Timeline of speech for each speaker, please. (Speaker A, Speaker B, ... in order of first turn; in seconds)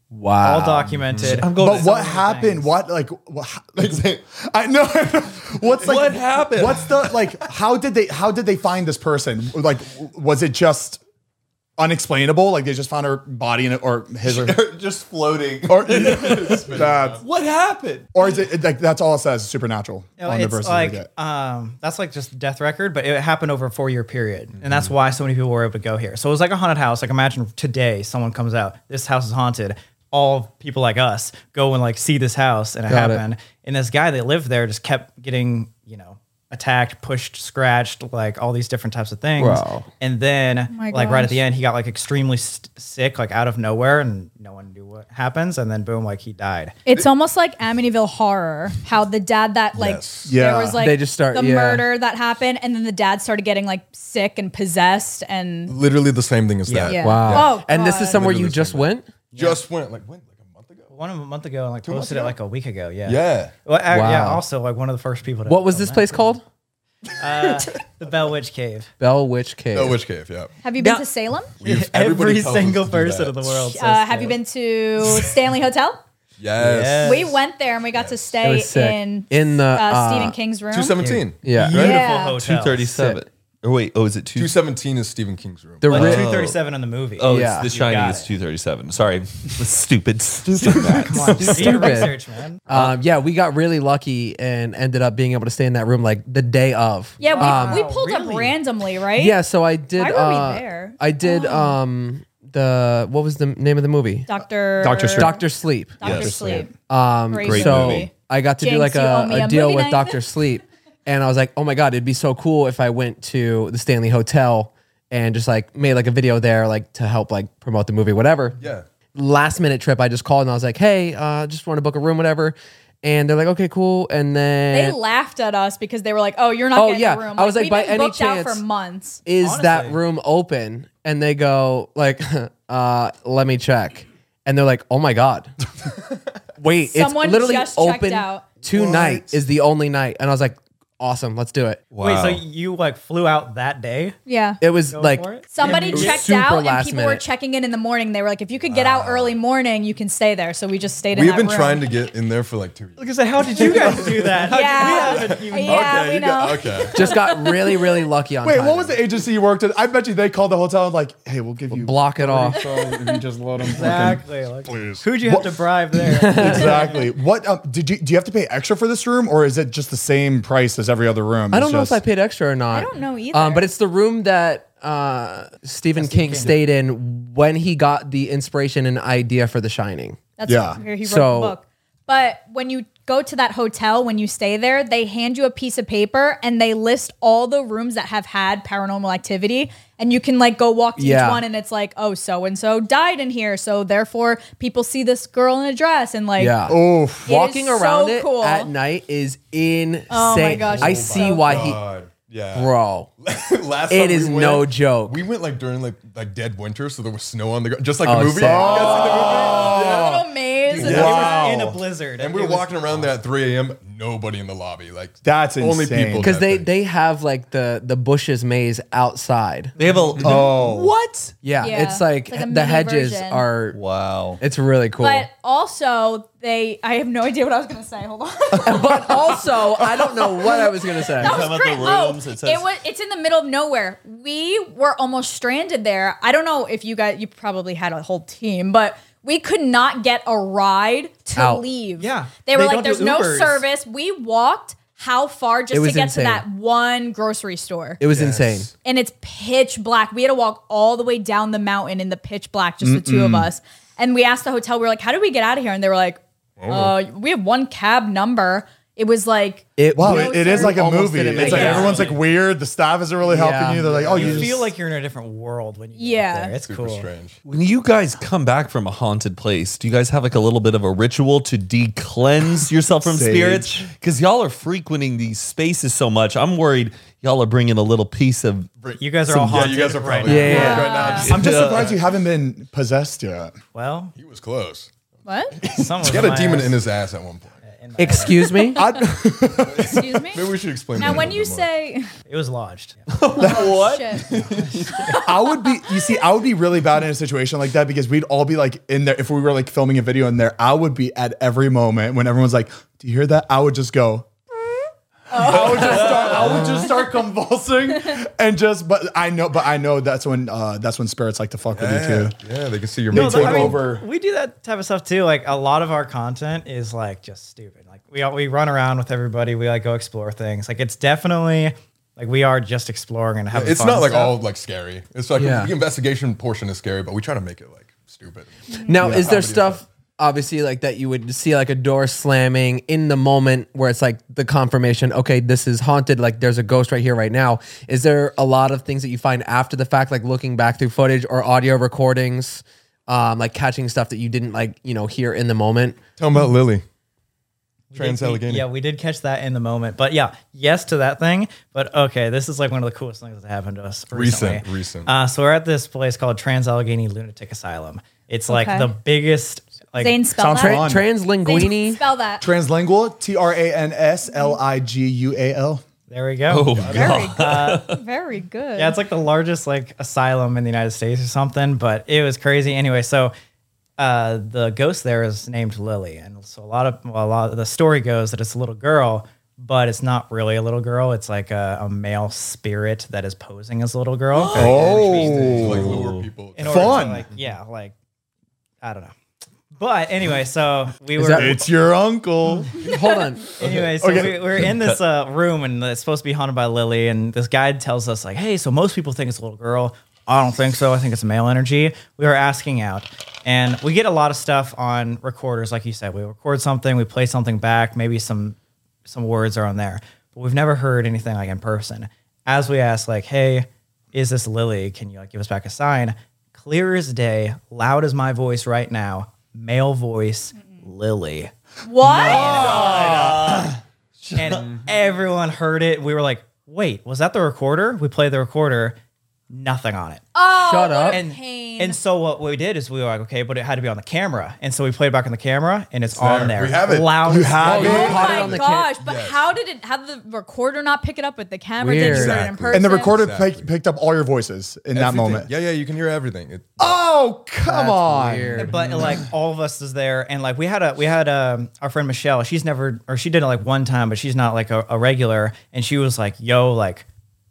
Speaker A: 0.1-1.3, 32.9-33.2, 39.4-39.9, 50.8-51.9, 57.0-59.1, 63.9-64.4, 65.5-66.4, 69.0-70.0, 78.4-80.3, 81.4-81.8, 82.8-83.2, 85.8-86.3, 87.3-87.7, 91.0-92.1, 92.7-97.9, 99.2-104.3, 105.1-118.6, 119.1-125.0, 126.7-128.6, 129.2-135.5, 136.6-141.8, 144.6-147.2, 156.9-159.0, 161.7-162.6, 166.1-166.8, 171.5-180.2, 181.0-181.6, 191.0-191.4, 196.4-201.8, 202.5-203.1, 203.9-205.2, 208.0-208.9, 216.2-219.7, 221.4-223.8, 224.4-225.3, 228.6-231.4, 241.3-241.6, 245.7-246.4, 248.0-248.7, 259.8-262.1, 263.2-264.5, 280.2-280.9, 288.0-288.8, 325.4-325.7, 328.9-346.0, 360.5-362.0, 391.1-391.6, 392.8-393.5, 430.5-431.2, 437.6-438.9, 441.8-442.4, 447.6-448.7
Speaker B: 0.4-2.7, 20.2-46.8, 56.7-57.0, 59.3-59.6, 60.9-66.3, 67.2-68.9, 70.8-71.0, 71.6-74.4, 76.6-77.3, 81.0-82.8, 85.9-88.3, 90.7-92.6, 97.2-98.6, 129.4-130.0, 142.0-144.2, 144.9-146.3, 153.0-156.0, 163.7-167.1, 175.9-176.6, 210.8-213.1, 219.8-220.2, 242.0-243.6, 261.4-262.2, 264.1-267.1, 279.0-280.8, 283.7-284.1, 285.7-286.8, 287.7-288.5, 292.3-293.1, 294.5-294.9, 313.1-324.4, 347.9-360.2, 366.1-366.8, 367.4-367.9, 368.8-373.3, 374.0-385.9, 386.6-387.9, 388.8-389.1, 389.7-391.7, 393.6-421.5, 422.2-423.6, 424.4-428.9, 429.5-430.2, 431.1-438.2, 448.6-457.0
Speaker C: 1.1-1.4, 15.9-17.2, 49.7-50.3, 55.7-60.9, 61.8-62.3, 63.0-63.5, 69.7-70.5, 71.6-73.5, 76.4-77.3, 77.9-78.2, 80.7-82.1, 84.3-86.1, 118.6-118.8, 138.7-139.2, 145.6-146.0, 148.6-149.3, 151.1-157.0, 164.7-165.0, 200.5-210.2, 210.7-211.4, 212.2-216.7, 248.1-248.7, 256.6-256.9, 266.6-267.4, 278.8-282.0, 284.1-284.9, 285.5-287.6, 289.6-291.7, 294.3-294.9, 305.5-305.9, 311.7-313.9, 323.5-329.8, 346.2-346.8, 347.9-348.6, 354.1-355.1, 366.7-367.3, 384.6-387.2, 436.1-439.5, 442.0-443.7, 444.9-447.0
Speaker D: 1.2-1.9, 5.8-7.2, 14.2-18.1, 82.4-84.6, 85.9-86.6, 87.2-92.0, 92.7-92.9, 107.4-108.1, 141.9-142.4, 219.8-221.3, 223.7-224.4, 231.2-232.7, 267.4-278.8, 281.1-282.0, 293.1-294.2, 366.5-368.0, 384.4-386.3, 393.6-395.0, 422.1-424.8
Speaker E: 1.5-11.0, 11.8-14.6, 15.6-17.2, 18.1-21.1, 50.2-50.8, 104.8-105.4, 106.0-106.7, 158.4-164.2, 165.2-165.6, 166.2-172.0, 180.4-180.8, 196.7-197.3, 208.4-211.8, 215.2-216.3, 220.2-220.9, 252.8-253.5, 259.9-264.7, 273.0-273.9, 281.2-283.5, 288.8-290.2, 293.4-293.7, 295.2-304.3, 305.3-312.4, 313.1-314.0, 360.4-361.1, 362.4-365.8, 384.5-385.9, 386.6-387.2, 391.4-392.8, 394.0-394.4, 437.2-438.4, 442.7-445.5, 446.8-449.1
Speaker F: 40.7-41.4, 46.9-55.8, 56.8-58.2, 70.6-71.5, 73.5-76.0, 77.0-81.0, 81.7-82.4, 97.2-99.4, 99.9-101.8, 104.3-105.4, 106.0-106.7, 107.3-110.2, 124.7-129.2, 136.8-138.5, 144.2-144.6, 145.5-151.9, 154.4-157.8, 162.6-163.2, 172.7-173.7, 180.4-196.6, 197.2-198.7, 200.1-201.7, 209.0-211.4, 221.6-223.5, 225.0-248.0, 248.8-260.8, 261.3-262.0, 266.0-266.5, 280.5-281.3, 285.2-285.6, 288.2-289.0, 289.8-292.1, 293.3-296.0, 305.3-306.9, 358.5-358.9, 360.0-360.9, 361.4-362.4, 366.9-369.0, 421.8-423.2, 430.3-432.0, 437.7-443.1